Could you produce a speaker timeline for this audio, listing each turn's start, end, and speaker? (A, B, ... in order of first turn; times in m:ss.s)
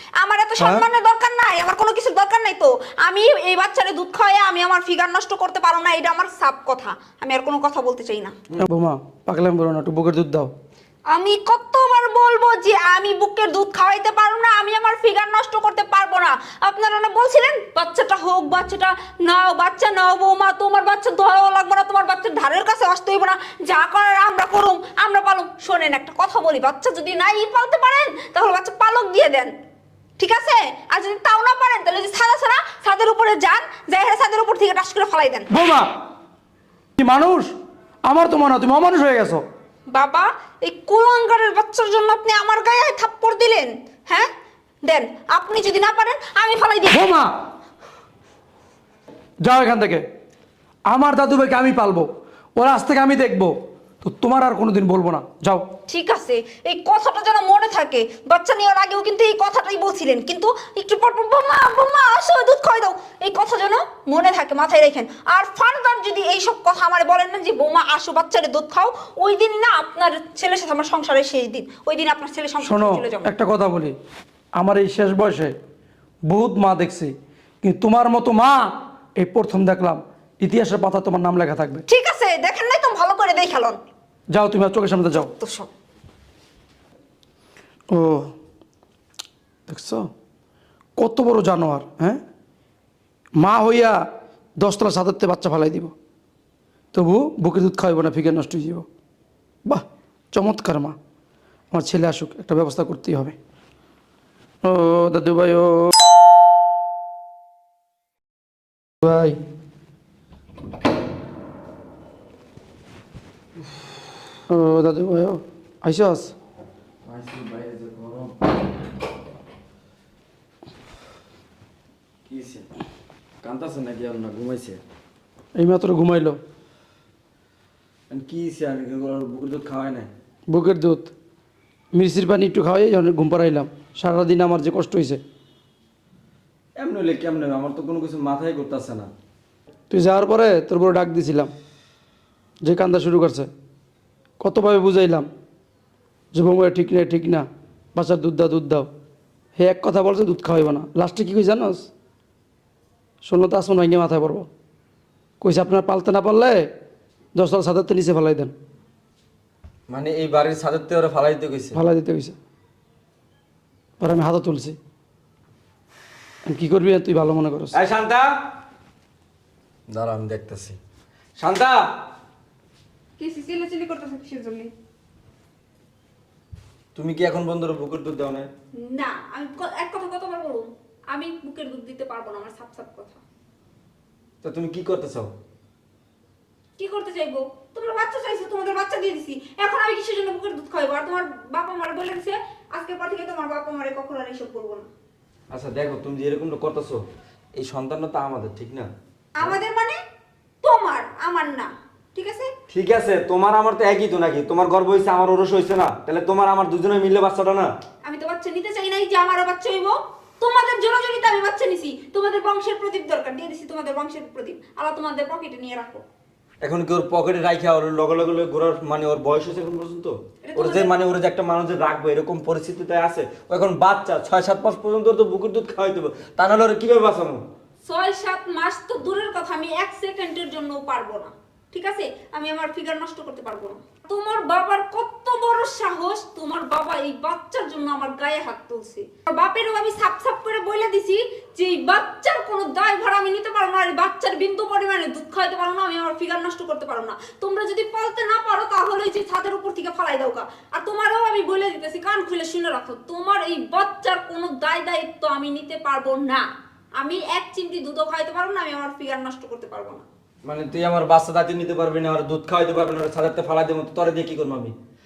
0:00.2-0:08.3 A
0:00.6-0:00.8 B
0:08.6-0:10.5 B
0:11.1-0:29.5 A
0:30.2-0:35.5 A
0:35.5-0:35.9 B
0:37.0-0:37.5 B
0:38.0-0:39.4 B
0:39.9-0:44.3 A
0:44.8-0:47.0 A
0:46.9-0:47.3 B
0:49.4-0:50.0 B
0:50.9-0:55.6 B
0:55.9-1:13.3 A
1:12.6-1:13.9 B
1:14.6-1:15.5 B
1:16.3-1:21.8 B
1:21.9-1:23.8 A
1:24.3-1:25.3 B
1:25.1-1:25.7 A
1:27.9-1:28.3 B
1:29.7-1:30.0 B
1:31.0-1:32.2 B
1:33.4-1:34.0 B
1:34.6-1:35.9 B
1:36.9-1:38.8 B
1:39.6-1:41.0 B
1:41.7-1:43.4 B
1:44.6-1:46.0 B
1:49.0-1:49.4 B
1:54.5-1:56.3 B
1:57.0-1:58.5 C
2:02.2-2:02.7 C
2:03.4-2:04.8 C
2:05.6-2:06.4 B
2:08.1-2:10.1 C
2:10.5-2:11.1 B
2:11.9-2:15.2 B
2:16.8-2:19.1 C
2:19.9-2:21.5 B
2:22.6-2:23.5 B
2:24.4-2:25.3 B
2:26.3-2:28.9 B
2:29.6-2:31.9 B
2:33.2-2:34.5 B
2:35.4-2:36.6 B
2:37.3-2:38.5 B
2:39.9-2:41.8 C
2:41.7-2:42.3 B
2:44.0-2:44.8 B
2:46.4-2:47.8 B
2:47.7-2:48.2 C
2:49.9-2:50.8 C
2:51.4-2:51.8 C
2:53.2-2:54.7 A
2:56.9-2:58.5 C
2:58.8-3:03.2 A
3:04.4-3:05.3 C
3:06.8-3:14.9 A
3:15.5-3:17.0 C
3:17.6-3:19.6 C
3:19.4-3:20.0 A
3:20.6-3:22.5 A
3:22.7-3:27.7 C
3:28.0-3:36.0 A
3:36.6-3:47.4 C
3:40.4-3:40.9 A
3:47.8-4:16.4 A
4:17.0-4:20.0 A
4:20.4-4:24.7 C